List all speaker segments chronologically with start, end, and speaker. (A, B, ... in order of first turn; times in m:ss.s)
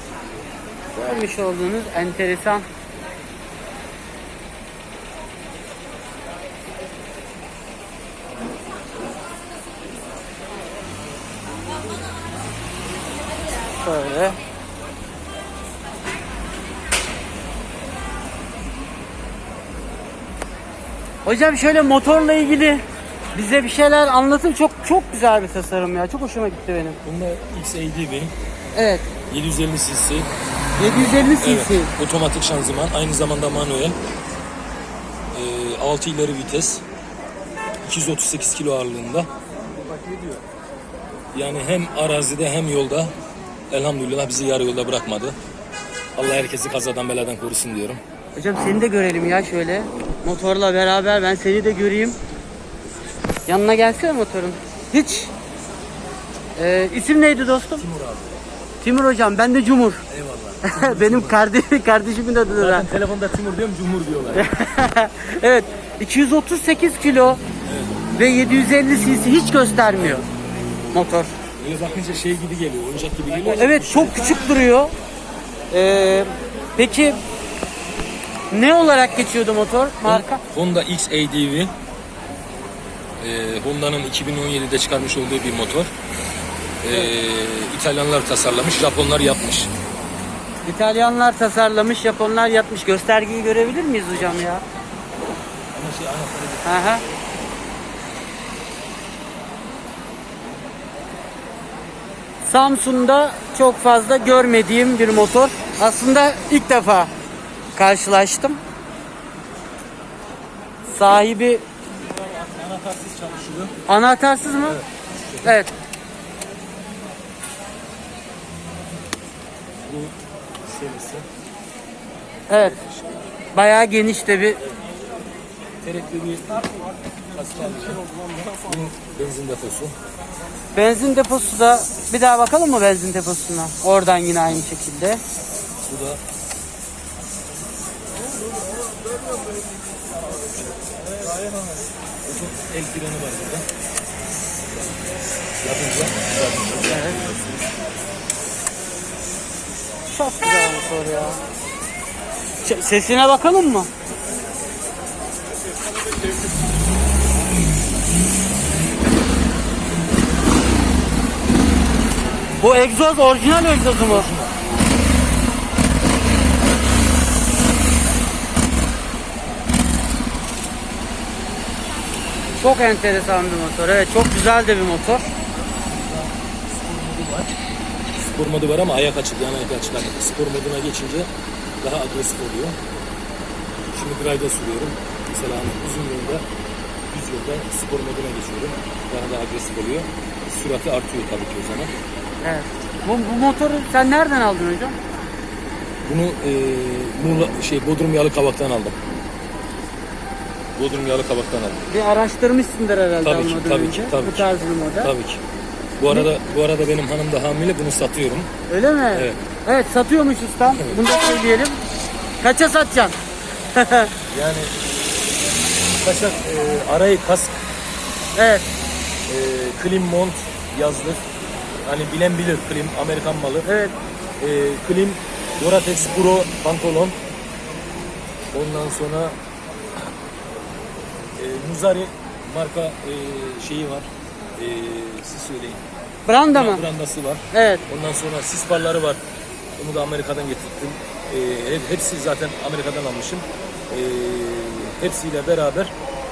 0:01.0-0:02.6 A
0:13.8-0:14.4 A
0:21.2-0:22.8 A
0:23.3-0:27.0 A
0:27.0-0:28.3 B
0:28.8-0:29.0 A
0:29.3-0:30.3 B
0:30.8-0:31.9 A
0:30.9-0:34.0 B
0:35.3-0:36.8 B
0:37.8-0:39.3 B
0:41.3-0:43.1 B
0:43.7-0:45.4 B
0:46.2-0:48.0 B
0:48.4-0:52.2 A
0:53.5-0:55.3 A
0:56.6-0:57.8 A
0:57.7-0:58.3 B
0:58.8-1:00.0 A
1:00.1-1:01.4 B
1:00.6-1:02.9 A
1:02.6-1:04.5 B
1:04.3-1:07.4 A
1:07.6-1:08.0 B
1:08.1-1:10.3 A
1:10.9-1:11.3 A
1:11.6-1:14.4 B
1:13.5-1:14.9 A
1:15.7-1:17.2 A
1:18.5-1:20.4 A
1:20.0-1:21.7 B
1:23.2-1:25.9 B
1:26.8-1:29.7 B
1:30.7-1:34.6 A
1:34.1-1:34.4 B
1:35.7-1:36.8 B
1:36.6-1:37.0 A
1:42.4-1:47.1 A
1:47.8-1:48.6 A
1:50.9-1:51.6 A
1:52.1-1:53.7 B
1:53.9-1:54.8 A
1:54.6-1:55.6 B
1:55.4-1:55.7 A
1:59.8-2:01.2 B
2:02.5-2:02.8 A
2:02.6-2:03.3 B
2:03.6-2:04.6 A
2:05.8-2:06.8 B
2:07.3-2:09.9 B
2:10.8-2:15.2 A
2:15.9-2:16.2 B
2:22.2-2:23.6 B
2:25.6-2:27.4 B
2:26.9-2:27.2 A
2:30.1-2:31.4 A
2:32.6-2:33.9 A
2:42.6-2:44.3 A
2:44.1-2:44.5 B
2:52.6-2:55.3 A
2:55.8-2:57.5 B
2:58.2-3:01.3 B
3:01.8-3:02.8 B
3:03.9-3:06.4 B
3:07.1-3:11.9 B
3:12.4-3:15.0 A
3:16.1-3:19.0 B
3:20.8-3:21.9 B
3:21.9-3:25.1 A
3:23.2-3:24.5 B
3:25.0-3:25.4 B
3:26.0-3:28.5 B
3:28.7-3:31.8 A
3:29.1-3:29.4 B
3:30.8-3:31.0 B
3:32.4-3:33.2 A
3:33.8-3:34.1 A
3:34.3-3:34.7 B
3:36.0-3:37.6 B
3:38.4-3:38.6 A
3:39.3-3:41.2 B
3:41.8-3:43.7 B
3:43.6-3:43.9 A
3:44.4-3:47.2 B
3:48.5-3:49.4 B
3:51.4-3:55.8 B
3:56.3-3:56.8 A
3:56.5-3:59.2 B
3:57.5-3:57.8 A
3:59.8-4:05.9 B